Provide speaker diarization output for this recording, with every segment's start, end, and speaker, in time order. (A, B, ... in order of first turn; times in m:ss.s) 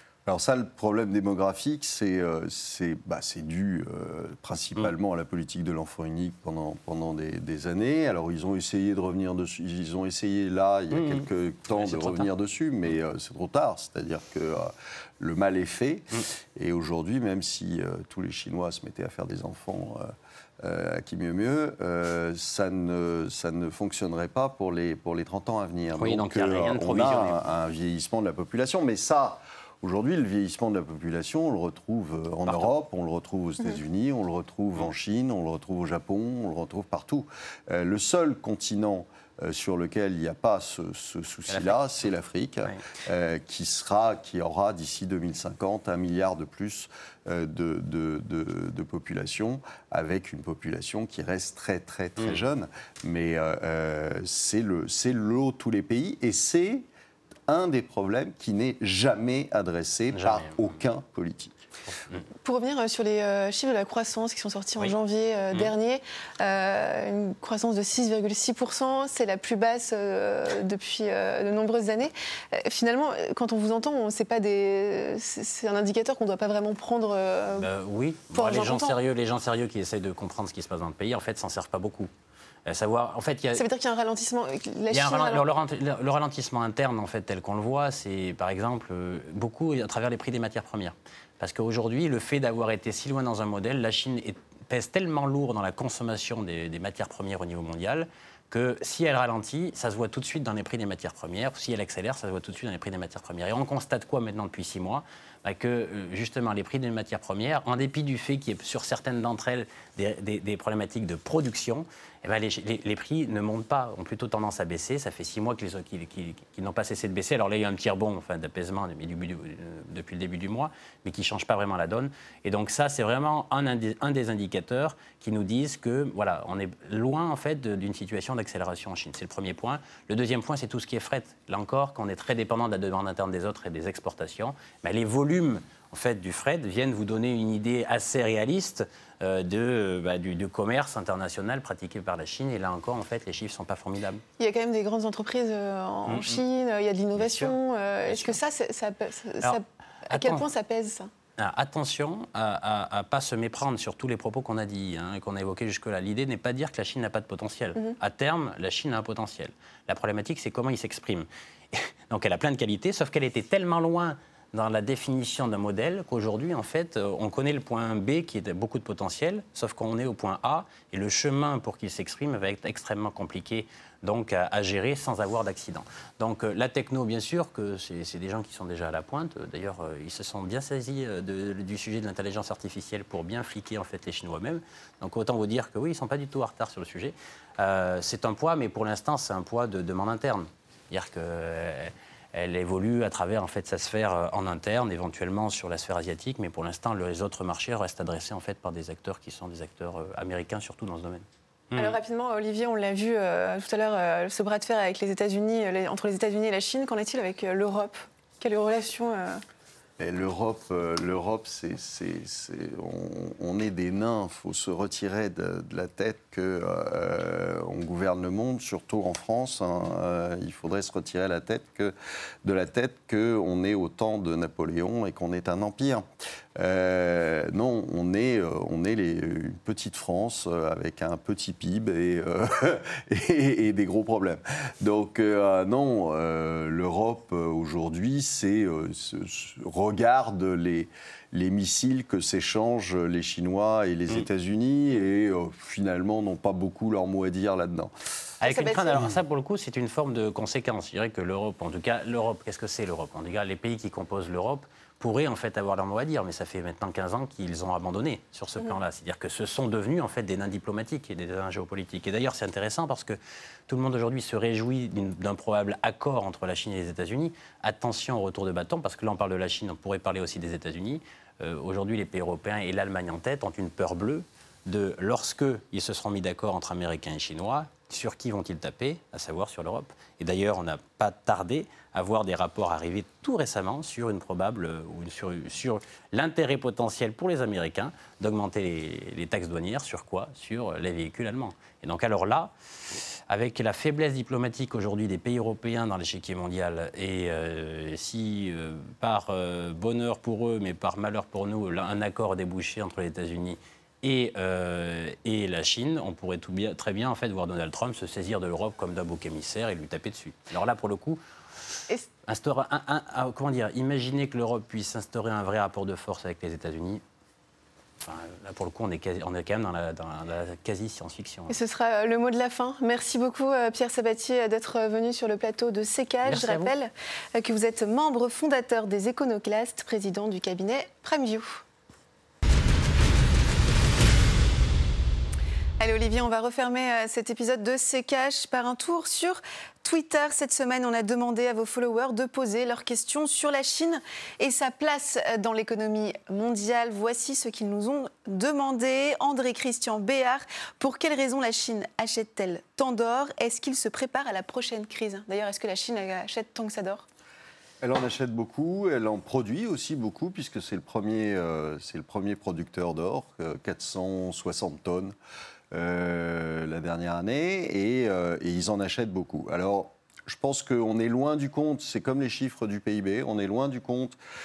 0:00.3-0:20.1 A
0:10.9-0:12.3 B
0:20.6-0:56.9 A
0:26.0-0:27.5 B
0:41.5-0:41.8 B
0:57.5-1:01.6 A
1:00.1-1:00.7 B
1:02.0-1:02.2 B
1:02.4-1:17.7 C
1:17.6-1:22.1 B
1:18.3-1:19.0 C
1:22.7-1:23.6 B
1:23.5-1:25.5 C
1:24.9-2:24.2 B
2:24.4-2:31.1 C
2:26.1-2:26.4 B
2:27.2-2:27.6 B
2:28.1-2:28.4 B
2:30.1-2:30.4 B
2:31.4-3:22.0 B
3:21.8-3:29.4 C
3:30.0-3:46.0 A
3:46.6-4:07.9 A
4:08.4-4:52.5 B
4:08.4-4:09.0 C
4:53.3-5:11.2 B
5:12.3-5:17.0 B
5:18.0-5:21.6 B
5:21.5-5:31.6 C
5:26.3-5:26.7 B
5:35.8-5:57.1 C
5:57.8-6:05.2 A
6:05.7-6:14.2 A